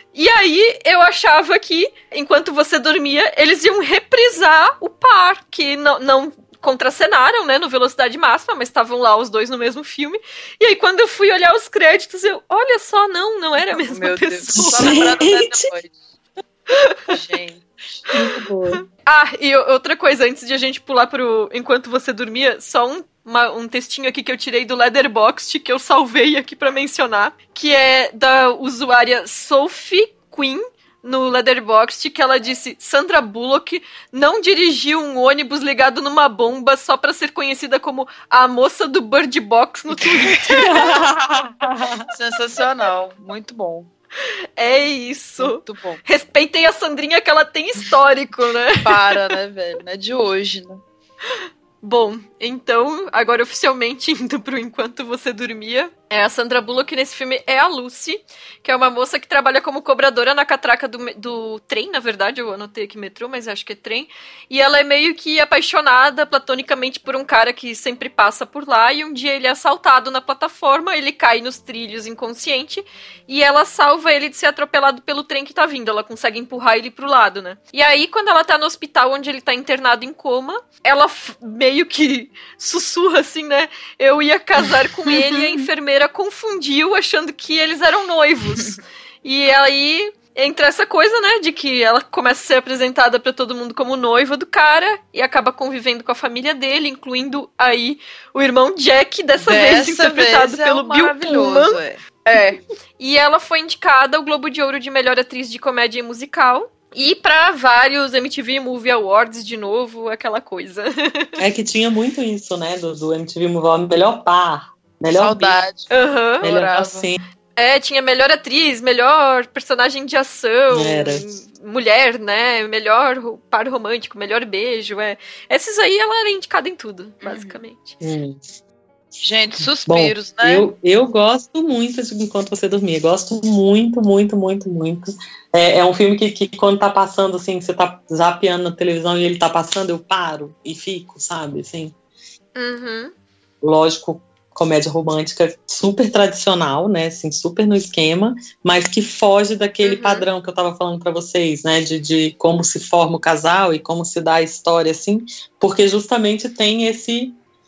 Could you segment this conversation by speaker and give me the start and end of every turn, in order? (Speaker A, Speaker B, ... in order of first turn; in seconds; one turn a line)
Speaker A: 0.1-15.0
Speaker B: 13.7-15.9
Speaker C: 14.5-15.7
Speaker B: 17.1-17.6
Speaker C: 18.1-18.8
Speaker A: 19.0-40.9
Speaker B: 40.0-40.7
Speaker C: 40.6-42.1
Speaker B: 42.1-43.9
Speaker A: 44.6-49.3
Speaker B: 45.4-46.0
Speaker B: 48.8-50.8
Speaker A: 51.8-111.4
Speaker B: 85.1-85.6
Speaker B: 99.4-102.0
Speaker C: 111.4-115.6
Speaker B: 115.2-115.9
Speaker A: 115.9-116.9
Speaker C: 116.4-117.2
Speaker B: 116.8-117.0
Speaker A: 117.6-128.0
Speaker C: 120.7-121.2
Speaker B: 127.2-127.6
Speaker C: 128.0-128.4
Speaker B: 129.2-130.7
Speaker C: 129.9-141.9
Speaker A: 142.6-143.1
Speaker C: 143.6-157.4
Speaker A: 149.8-150.3